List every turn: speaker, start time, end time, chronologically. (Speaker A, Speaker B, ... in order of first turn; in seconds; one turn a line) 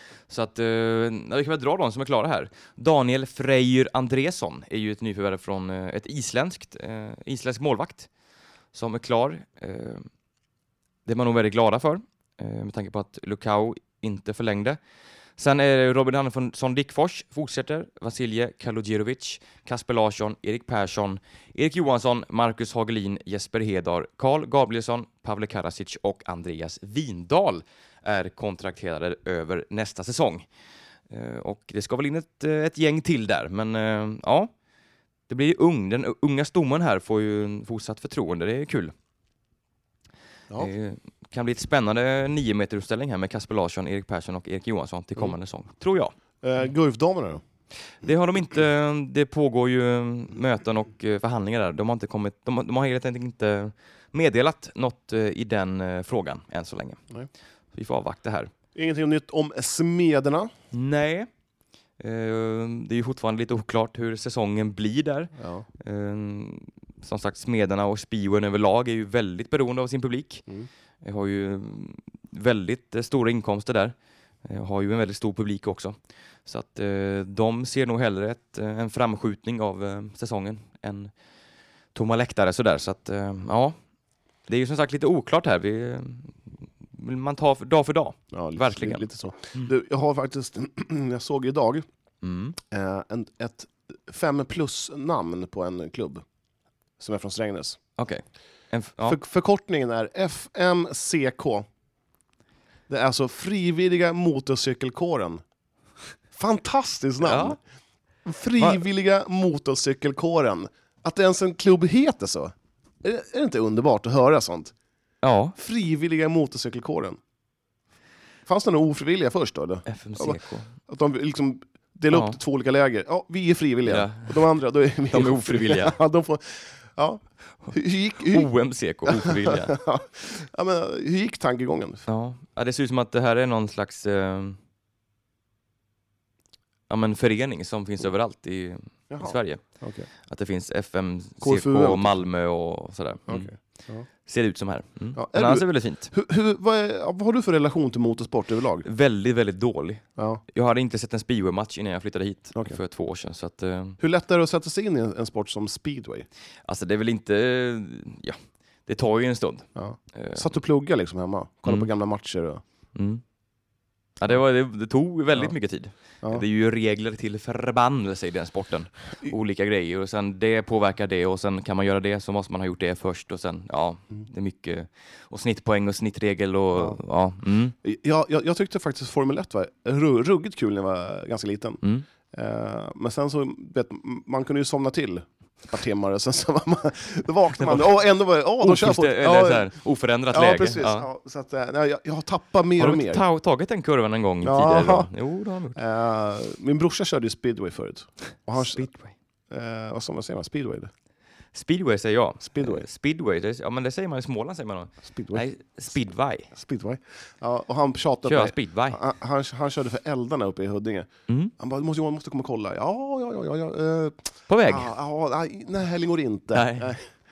Speaker A: 0.3-8.1
Speaker A: 8.7-10.1
Speaker A: 11.1-14.8
Speaker A: 15.4-30.5
Speaker A: 31.1-34.5
Speaker A: 35.3-38.9
Speaker A: 40.6-46.1
Speaker B: 46.4-47.4
Speaker A: 48.0-57.0
Speaker A: 57.7-58.5
Speaker B: 58.7-60.5
Speaker A: 60.7-61.3
Speaker A: 62.0-70.5
Speaker B: 65.4-65.7
Speaker A: 71.0-81.1
Speaker A: 81.9-83.8
Speaker A: 84.5-89.0
Speaker B: 88.3-91.8
Speaker A: 92.2-92.6
Speaker B: 92.7-96.2
Speaker B: 97.0-97.8
Speaker A: 98.0-99.2
Speaker B: 99.0-101.7
Speaker B: 102.9-105.4
Speaker B: 106.3-107.6
Speaker A: 107.2-107.6
Speaker B: 108.2-114.7
Speaker A: 108.6-108.8
Speaker A: 115.2-115.5
Speaker B: 115.6-117.2
Speaker B: 118.5-128.5
Speaker A: 119.9-120.7
Speaker A: 122.1-122.4
Speaker A: 123.8-124.4
Speaker A: 125.1-126.0
Speaker A: 128.3-129.8
Speaker B: 129.1-132.1
Speaker A: 132.1-134.6
Speaker A: 136.9-139.6
Speaker B: 139.1-140.1
Speaker A: 140.2-143.5
Speaker B: 141.4-142.2
Speaker B: 143.3-144.1
Speaker A: 144.1-146.1
Speaker B: 145.1-148.8
Speaker A: 148.8-154.0
Speaker B: 154.0-156.3
Speaker A: 156.6-160.5
Speaker B: 159.8-162.6
Speaker A: 162.9-163.2
Speaker A: 164.2-177.7
Speaker B: 177.8-189.8
Speaker A: 187.5-188.0
Speaker A: 188.6-191.1
Speaker B: 190.3-193.2
Speaker A: 192.8-195.8
Speaker B: 194.4-195.1
Speaker B: 195.8-198.9
Speaker A: 198.6-199.1
Speaker B: 199.5-200.9
Speaker A: 201.5-206.5
Speaker B: 202.4-202.8
Speaker B: 205.1-205.4
Speaker B: 206.5-217.1
Speaker A: 208.2-209.0
Speaker A: 214.5-214.9
Speaker A: 216.5-216.9